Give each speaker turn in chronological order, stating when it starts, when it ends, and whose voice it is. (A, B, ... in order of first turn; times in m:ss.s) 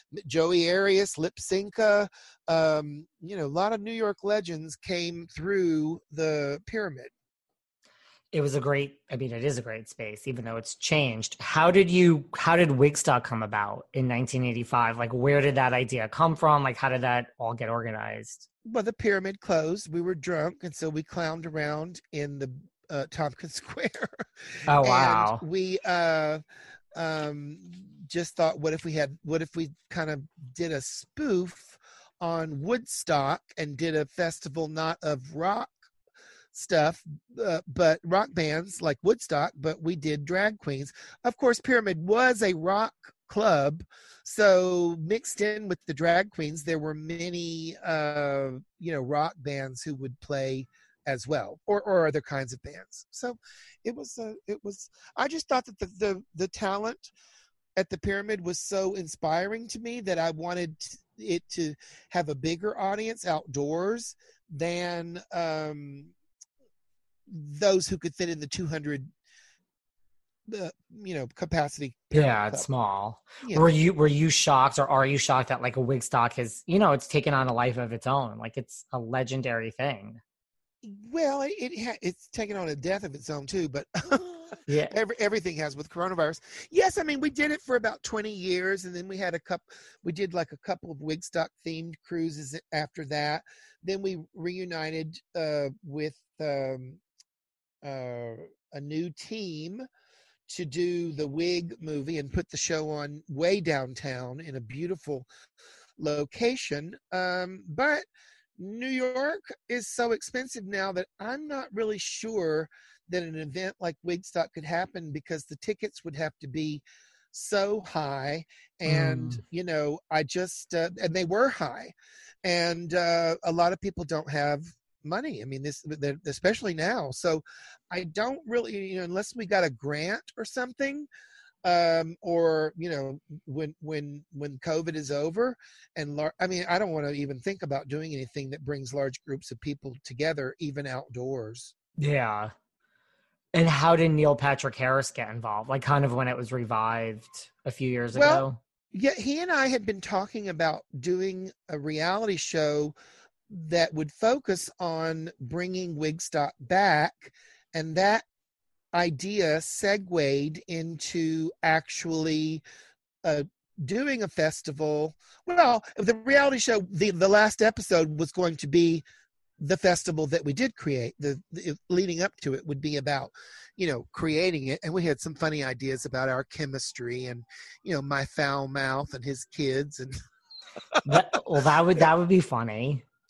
0:00.1-0:07.1 A
0:08.3-0:18.5 B
0:18.6-0:26.4 A
0:24.7-0:25.4 B
0:27.0-0:35.8 A
0:36.5-0:57.1 A
0:57.8-1:06.1 A
1:07.3-1:09.1 A
1:10.5-1:12.6 A
1:12.1-1:20.2 B
1:13.4-1:13.7 A
1:20.8-1:37.0 A
1:24.7-1:24.9 B
1:37.8-1:39.8 A
1:40.5-1:45.3 A
1:46.0-1:48.0 A
1:48.6-2:01.9 A
1:58.8-1:59.4 B
2:02.4-2:11.1 A
2:11.6-2:21.7 A
2:22.0-2:22.5 B
2:23.5-2:28.6 B
2:28.1-2:33.0 A
2:33.5-2:38.2 A
2:38.9-2:42.6 A
2:43.2-2:49.0 A
2:49.6-3:00.1 A
3:00.9-3:01.2 A
3:01.0-3:03.0 B